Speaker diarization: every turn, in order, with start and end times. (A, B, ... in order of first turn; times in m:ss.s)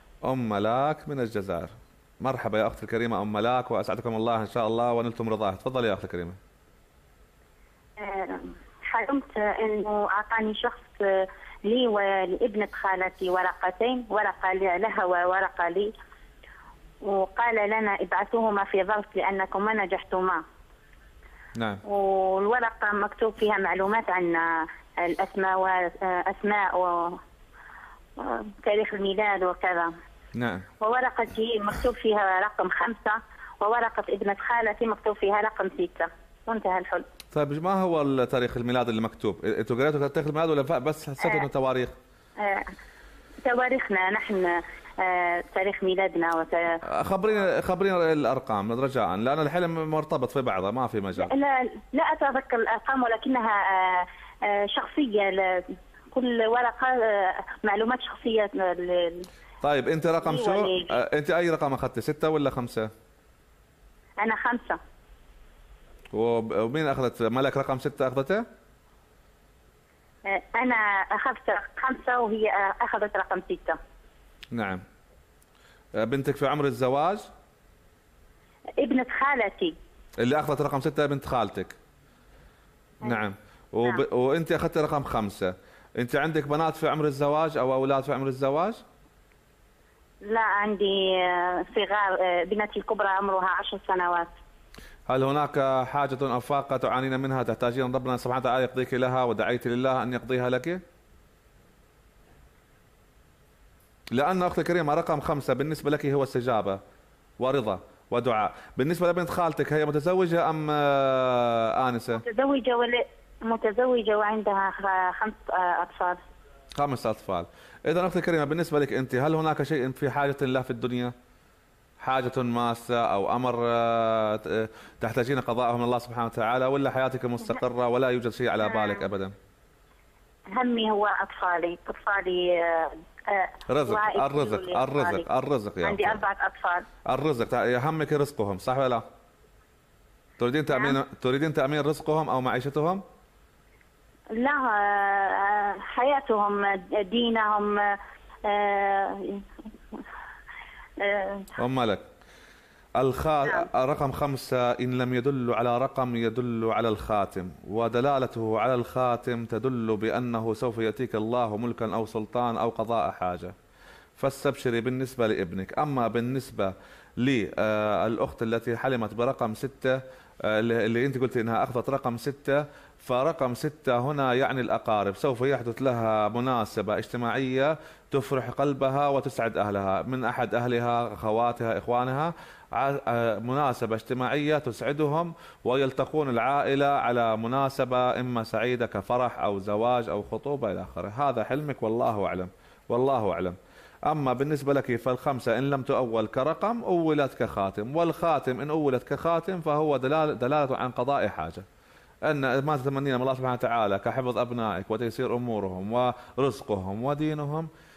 0:00.2-0:06.4 A
0:08.0-0:15.9 B
0:17.0-0:20.4 B
0:21.5-0:21.8 A
0:21.8-0:27.2 B
0:28.2-0:29.9 B
0:30.3-0:30.7 A
0:30.8-0:37.0 B
0:37.3-0:41.9 A
0:42.4-0:42.7 B
0:43.4-0:46.8 B
0:46.8-0:51.3 A
0:51.2-0:59.2 B
0:59.6-1:02.9 A
1:00.2-1:01.0 B
1:04.2-1:04.8 B
1:06.1-1:08.4 A
1:10.3-1:13.8 B
1:14.5-1:14.8 A
1:16.0-1:17.3 A
1:18.8-1:19.7 B
1:20.2-1:21.8 A
1:23.0-1:28.8 A
1:30.2-1:34.3 B
1:35.1-1:40.8 A
1:44.1-1:46.8 A
1:47.4-1:52.2 A
1:52.2-1:56.2 B
1:56.8-2:01.1 A
2:02.0-2:09.3 A
2:08.6-2:09.0 B
2:10.6-2:15.2 B
2:13.7-2:16.2 A
2:15.8-2:16.8 B
2:17.0-2:19.0 A
2:20.4-2:23.0 A
2:20.7-2:21.0 B
2:24.3-2:30.0 B
2:31.0-2:31.6 B
2:31.6-2:32.0 A
2:33.0-2:43.5 A
2:44.2-3:13.6 A
3:14.1-3:21.6 A
3:22.2-3:27.7 A